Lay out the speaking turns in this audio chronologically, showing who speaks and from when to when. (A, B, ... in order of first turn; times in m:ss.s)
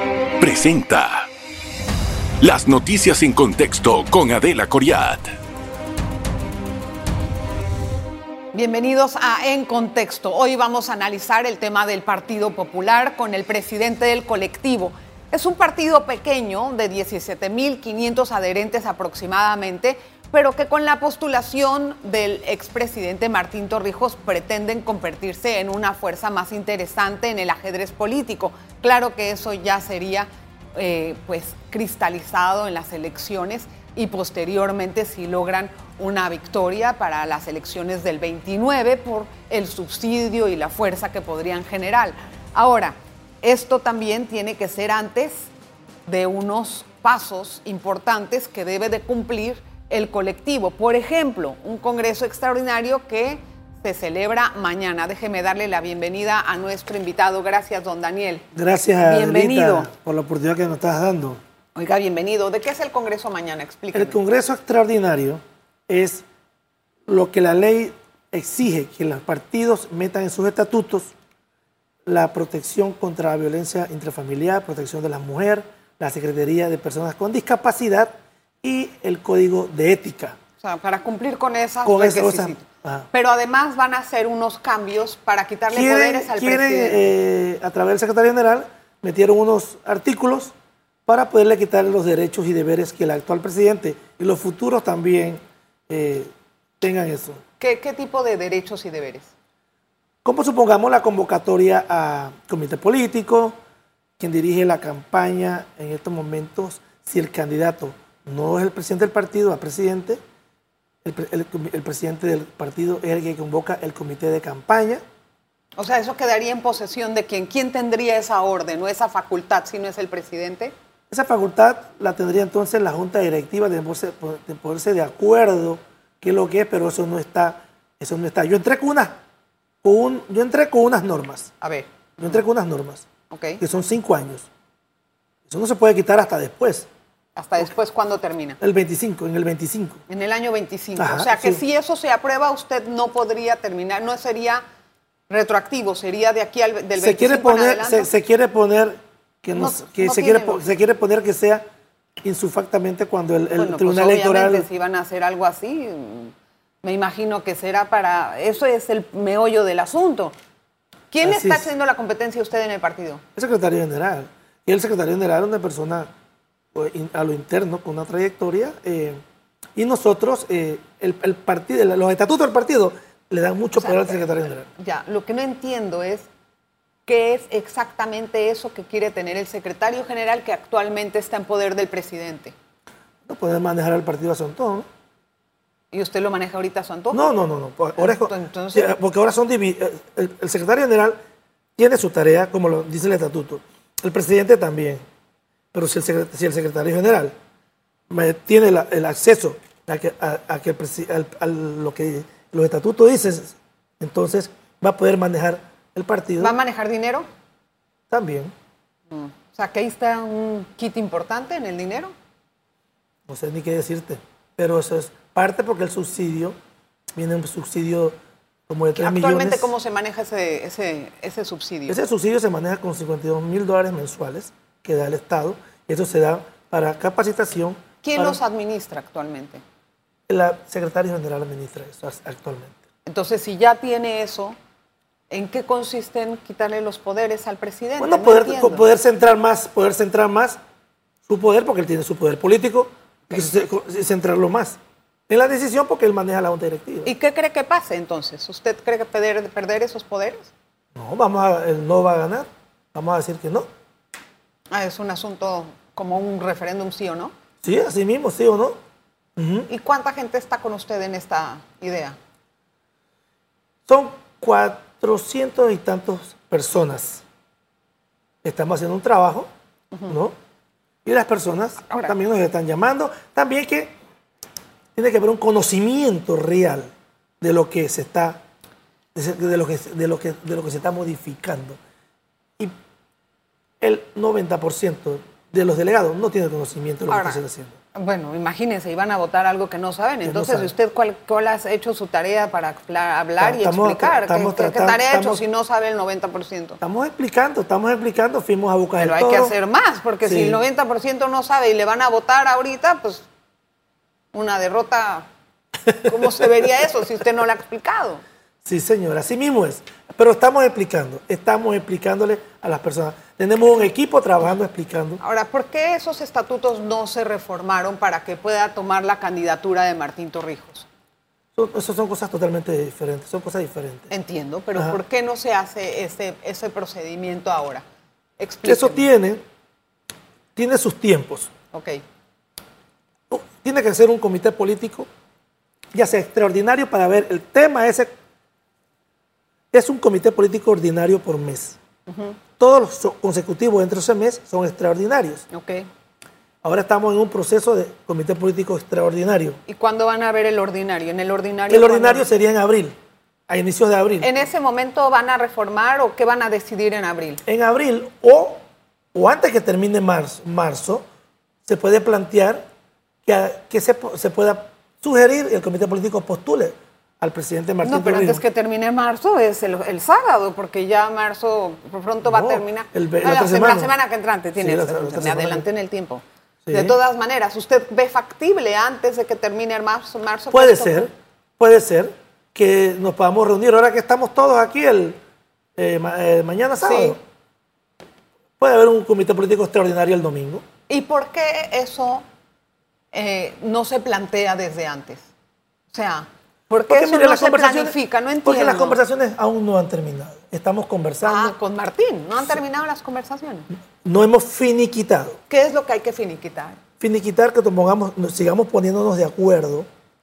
0:00.4-0:01.3 A
0:02.4-0:05.3 A
0:08.5-0:45.5 B
0:46.0-0:58.4 B
0:58.5-1:01.4 C
0:59.0-0:59.9 B
1:01.7-1:04.2 B
1:03.9-1:06.2 C
1:07.0-1:11.1 C
1:12.0-1:20.4 C
1:20.6-1:27.1 B
1:21.8-1:23.1 C
1:25.7-1:30.5 C
1:31.1-1:37.4 C
1:37.6-1:39.3 B
1:40.2-1:43.6 C
1:44.2-1:50.2 C
1:51.0-1:55.0 C
1:55.8-2:00.7 B
2:01.1-2:09.2 C
2:09.8-2:11.5 C
2:11.6-2:12.4 B
2:12.2-2:13.0 C
2:13.3-2:13.6 B
2:13.6-2:14.5 C
2:15.5-2:16.9 C
2:17.4-2:18.6 B
2:18.6-2:20.0 C
2:20.1-2:24.6 B
2:21.0-2:21.6 C
2:25.3-2:28.1 B
2:27.0-2:31.6 C
2:29.6-2:30.6 B
2:32.2-2:34.6 C
2:33.5-2:40.3 B
2:41.1-2:43.2 B
2:41.2-2:41.7 C
2:43.4-2:46.1 C
2:46.7-2:49.2 C
2:49.8-2:54.7 C
2:53.8-2:54.2 B
2:54.8-2:56.2 B
2:57.0-3:02.5 B
3:03.2-3:04.9 C
3:05.9-3:07.3 B
3:07.1-3:11.2 C
3:08.0-3:08.9 B
3:11.8-3:15.0 C
3:15.7-3:17.3 C
3:18.1-3:26.6 C
3:26.4-3:27.3 B
3:28.1-3:28.5 C
3:29.1-3:32.1 B
3:33.3-3:36.6 C
3:37.1-3:38.2 C
3:38.7-3:39.7 C
3:39.0-3:42.0 B
3:41.9-3:48.4 C
3:48.0-3:49.6 B
3:50.3-3:52.8 C
3:53.0-3:54.6 B
3:55.3-3:58.8 B
3:58.0-4:00.6 C
4:01.3-4:04.8 C
4:05.3-4:07.1 C
4:07.0-4:10.5 B
4:11.0-4:13.7 C
4:14.7-4:17.3 B
4:17.6-4:18.8 C
4:19.4-4:19.7 C
4:19.7-4:22.2 B
4:23.9-4:27.2 C
4:28.4-4:29.5 C
4:30.1-4:30.3 C
4:31.0-4:33.9 C
4:31.8-4:32.1 B
4:34.9-4:38.4 C
4:39.1-4:41.8 C
4:43.8-4:47.7 C
4:47.1-4:47.4 B
4:47.9-4:56.8 B
4:50.2-4:50.7 C
4:53.4-4:55.4 C
4:56.8-4:59.5 C
4:59.0-5:03.2 B
5:00.2-5:00.6 C
5:04.3-5:05.3 B
5:06.0-5:08.2 B
5:06.0-5:06.4 C
5:08.6-5:15.2 C
5:15.2-5:20.8 B
5:21.5-5:24.1 C
5:24.1-5:27.8 B
5:28.4-5:29.1 B
5:28.6-5:29.4 C
5:30.6-5:31.5 C
5:31.7-5:32.0 B
5:33.3-5:35.1 C
5:35.9-5:38.1 C
5:39.7-5:41.8 C
5:42.1-5:42.4 B
5:42.6-5:45.4 C
5:45.5-5:45.9 B
5:46.6-5:49.6 C
5:49.7-5:52.3 B
5:51.7-5:52.9 C
5:53.5-5:54.3 C
5:54.2-5:57.4 B
5:57.4-5:58.6 C
5:59.1-6:01.0 C
6:01.6-6:02.6 C
6:03.2-6:08.4 C
6:07.8-6:21.1 B
6:12.2-6:13.9 C
6:14.6-6:15.6 C
6:16.6-6:17.0 C
6:20.5-6:25.2 C
6:25.8-6:27.2 C
6:26.8-6:27.2 B
6:28.6-6:30.6 C
6:30.9-6:32.2 B
6:33.1-6:35.2 B
6:35.9-6:39.0 B
6:36.9-6:41.5 C
6:41.2-6:43.7 B
6:44.0-6:45.4 C
6:45.5-6:46.8 B
6:47.0-6:49.9 C